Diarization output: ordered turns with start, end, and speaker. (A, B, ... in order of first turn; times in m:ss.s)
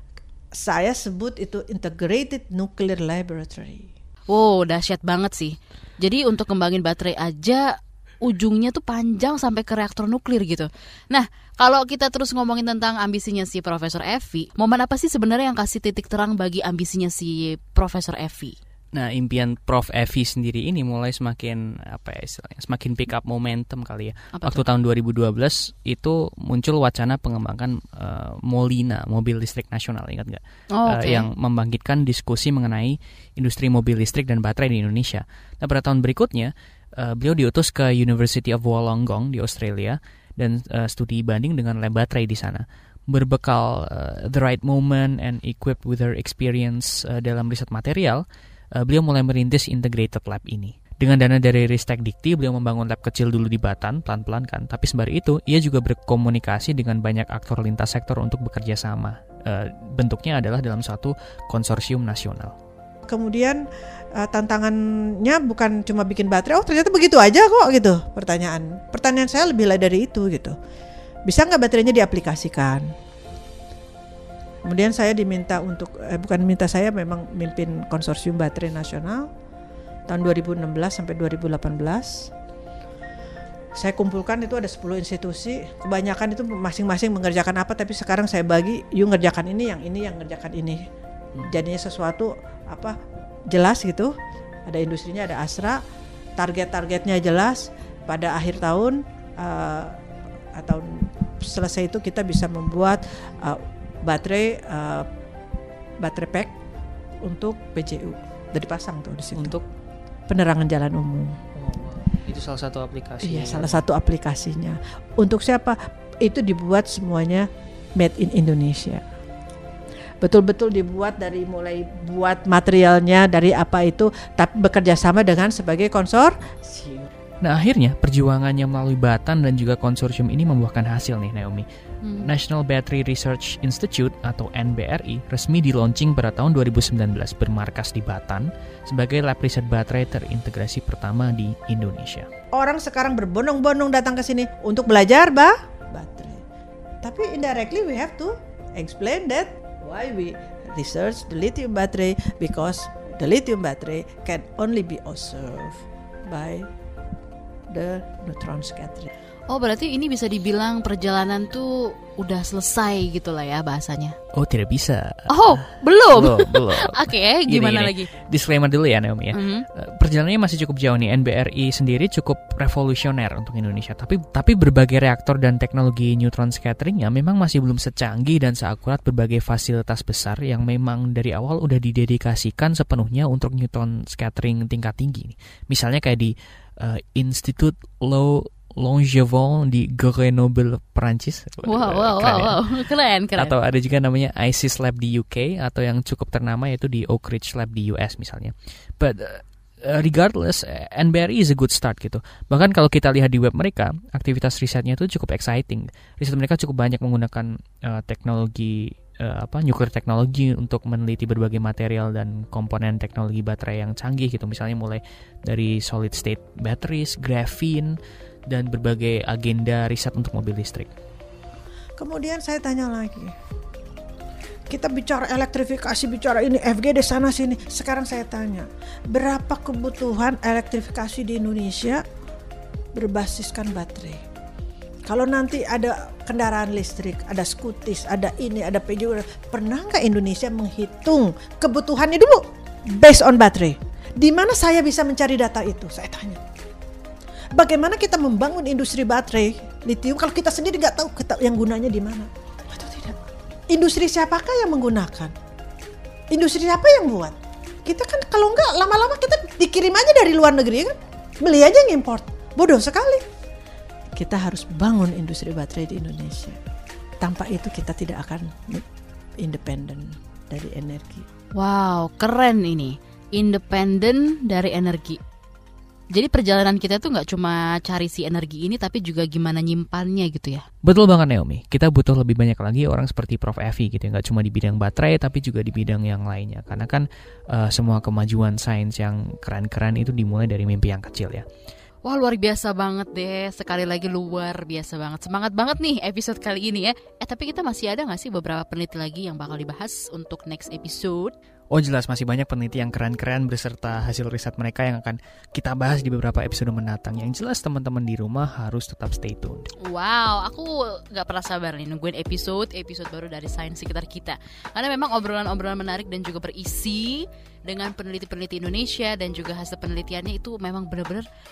0:00.5-0:03.9 A
0:04.3-0:18.6 B
0:18.9-0:48.2 C
0:24.3-0:24.6 B
0:30.7-0:31.3 B
0:48.7-1:02.5 C
1:03.1-1:10.5 A
1:11.2-1:12.9 A
1:14.6-1:19.3 A
1:20.1-1:22.3 A
1:23.7-1:30.8 A
1:31.4-1:33.0 A
1:33.5-1:34.1 A
1:34.6-1:35.8 A
1:36.4-1:40.0 A
1:40.5-1:45.1 A
1:46.0-1:46.6 A
1:47.2-1:49.5 A
1:49.3-1:49.6 C
1:50.3-1:51.4 A
1:51.5-1:53.8 C
1:53.2-1:59.0 A
2:00.2-2:07.1 A
2:07.4-2:11.6 C
2:12.0-2:12.3 B
2:12.2-2:22.3 C
2:22.5-2:26.4 A
2:27.0-2:36.7 A
2:37.7-2:39.1 A
2:39.5-2:44.2 B
2:44.3-3:12.6 C
2:45.3-2:48.1 B
2:49.3-2:49.6 B
3:11.6-3:13.5 B
3:13.3-3:38.0 C
3:38.5-3:40.9 C
3:42.0-3:43.3 A
3:44.7-3:52.0 A
3:52.9-3:54.2 A
3:55.0-4:06.4 A
4:07.5-4:13.2 A
4:13.7-4:15.3 A
4:16.3-4:23.2 A
4:24.1-4:26.6 A
4:27.2-4:28.8 A
4:29.4-4:31.2 A
4:31.6-4:35.2 B
4:36.1-4:40.6 B
4:40.8-4:51.4 C
4:52.0-5:01.3 B
5:01.7-5:09.7 C
5:09.8-5:21.2 B